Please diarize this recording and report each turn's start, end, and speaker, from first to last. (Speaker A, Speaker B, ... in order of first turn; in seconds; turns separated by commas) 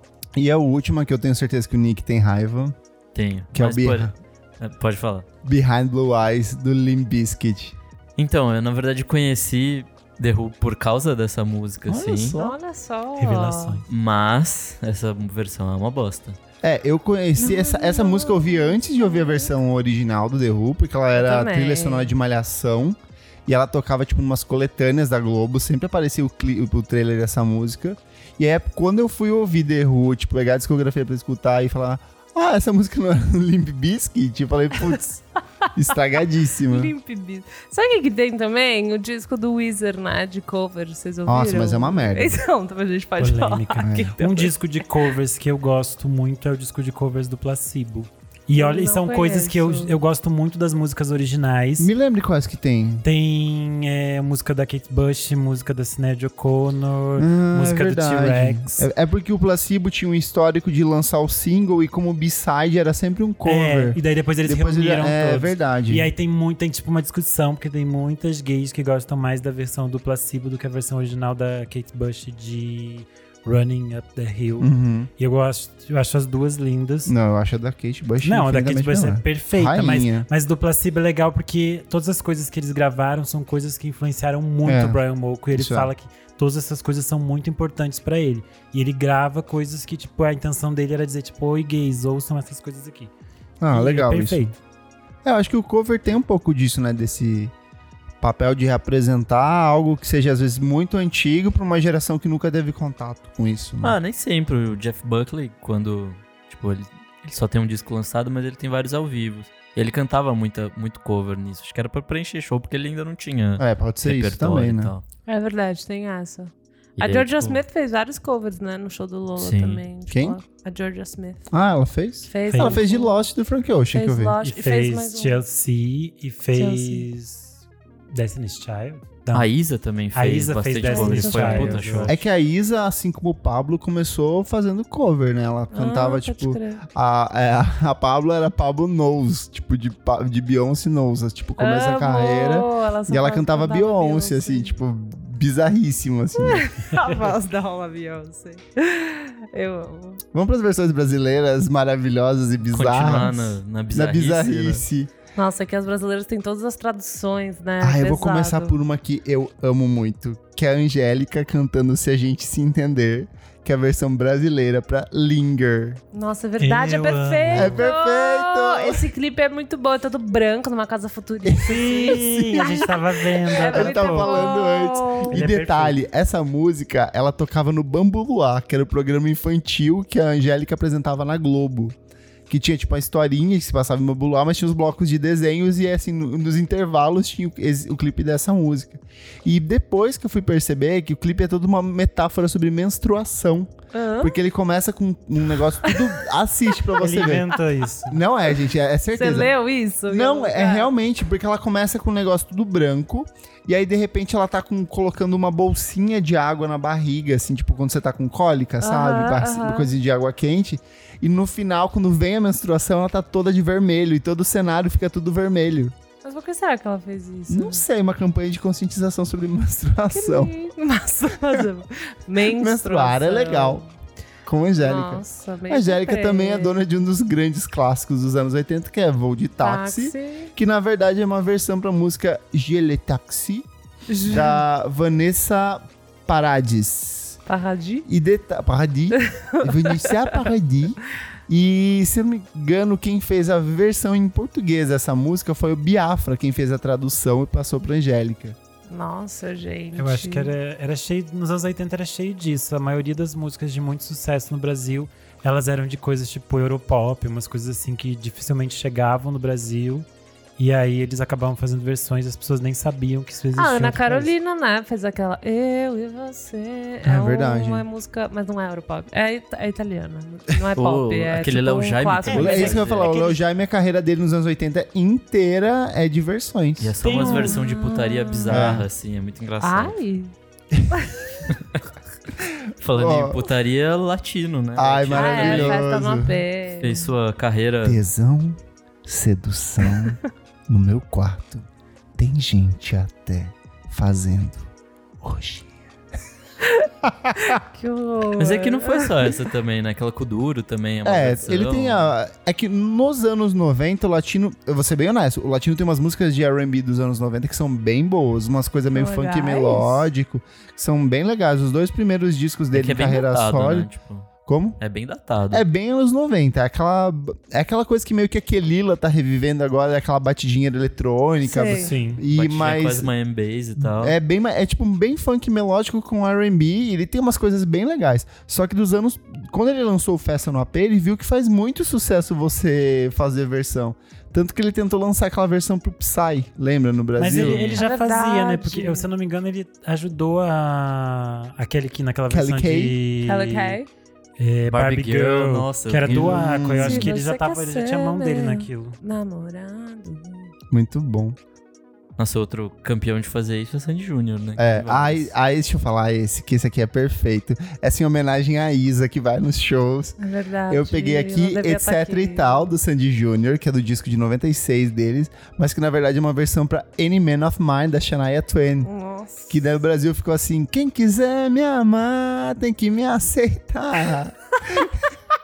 Speaker A: 0.3-2.8, Speaker B: 3.1-5.2, Speaker A: 3.5-4.1, Speaker A: 5.4-7.8, Speaker B: 8.2-12.3, Speaker A: 11.9-12.6, Speaker C: 12.4-13.8, Speaker D: 13.2-13.8, Speaker B: 13.9-16.4, Speaker A: 16.6-35.2, Speaker C: 17.4-19.5, Speaker C: 21.1-22.1, Speaker A: 35.7-36.9, Speaker C: 36.7-44.5, Speaker A: 41.2-42.4, Speaker D: 43.2-51.9, Speaker A: 43.8-44.1, Speaker C: 48.5-50.0, Speaker A: 51.8-53.0, Speaker D: 53.0-58.9, Speaker A: 57.2-66.1, Speaker D: 63.4-77.1, Speaker A: 74.6-75.1, Speaker A: 77.0-80.3, Speaker D: 78.2-93.1, Speaker A: 84.6-85.0, Speaker A: 85.5-85.9, Speaker A: 93.6-94.5, Speaker D: 93.7-94.5, Speaker A: 95.2-97.5, Speaker A: 98.2-104.0, Speaker B: 103.8-115.0, Speaker A: 113.6-114.9, Speaker C: 115.3-121.5, Speaker B: 117.0-117.6, Speaker B: 119.4-119.8, Speaker A: 120.1-120.4, Speaker A: 121.5-124.4, Speaker C: 122.3-123.2, Speaker D: 122.5-122.8, Speaker C: 123.9-125.4, Speaker D: 124.4-127.5, Speaker C: 126.5-127.0, Speaker D: 128.1-129.5, Speaker B: 129.3-132.1, Speaker D: 130.1-132.2, Speaker C: 130.8-132.0, Speaker A: 132.1-146.7, Speaker C: 135.7-136.8, Speaker C: 141.6-144.7, Speaker C: 146.3-150.2, Speaker A: 150.3-155.1, Speaker B: 152.7-154.8, Speaker C: 155.3-158.7, Speaker A: 157.8-166.0, Speaker C: 166.1-175.4, Speaker D: 166.6-167.9, Speaker A: 167.5-169.1, Speaker A: 171.4-172.8, Speaker D: 171.6-174.3, Speaker A: 173.6-181.9, Speaker D: 175.3-176.0, Speaker A: 182.5-199.5, Speaker C: 193.9-194.3, Speaker D: 197.0-198.2, Speaker C: 199.1-200.9, Speaker A: 200.1-215.9, Speaker C: 208.8-209.9, Speaker C: 216.2-217.8, Speaker A: 217.5-220.5, Speaker C: 220.1-223.9, Speaker A: 222.4-223.8, Speaker A: 224.4-233.7, Speaker C: 224.8-226.8, Speaker C: 229.6-230.5, Speaker C: 234.1-234.6, Speaker A: 234.2-237.4, Speaker C: 237.5-238.1, Speaker A: 238.1-248.6, Speaker C: 239.1-240.5, Speaker C: 248.9-250.5, Speaker D: 249.9-260.1, Speaker D: 260.6-264.3, Speaker C: 263.5-273.4, Speaker A: 267.0-267.9, Speaker B: 270.7-273.2, Speaker D: 272.3-272.8, Speaker A: 272.3-276.9, Speaker B: 276.8-280.0, Speaker D: 277.0-277.6, Speaker C: 277.1-278.7, Speaker A: 278.5-278.9, Speaker C: 279.6-280.3, Speaker B: 281.5-281.8, Speaker A: 282.4-283.4, Speaker B: 282.8-285.9, Speaker A: 284.8-286.4, Speaker C: 285.1-287.1, Speaker B: 286.8-288.0, Speaker A: 287.8-294.7, Speaker A: 295.2-295.7, Speaker A: 297.0-297.6, Speaker C: 297.4-299.3, Speaker B: 298.4-302.1, Speaker A: 301.0-313.9, Speaker C: 308.9-310.0, Speaker B: 312.7-315.6, Speaker A: 314.4-314.8, Speaker A: 315.5-323.1, Speaker C: 321.4-321.9, Speaker D: 321.7-322.2, Speaker B: 322.3-324.1, Speaker A: 323.8-337.8, Speaker D: 337.2-343.8, Speaker B: 337.3-337.8, Speaker C: 337.8-339.1, Speaker A: 342.3-343.0, Speaker C: 343.2-343.9, Speaker D: 344.4-349.0, Speaker B: 344.7-346.5, Speaker A: 346.1-347.1, Speaker C: 346.8-350.5, Speaker A: 350.7-351.4, Speaker B: 352.2-355.3, Speaker A: 354.6-368.9, Speaker C: 360.2-362.7, Speaker C: 368.8-369.6, Speaker A: 369.5-375.0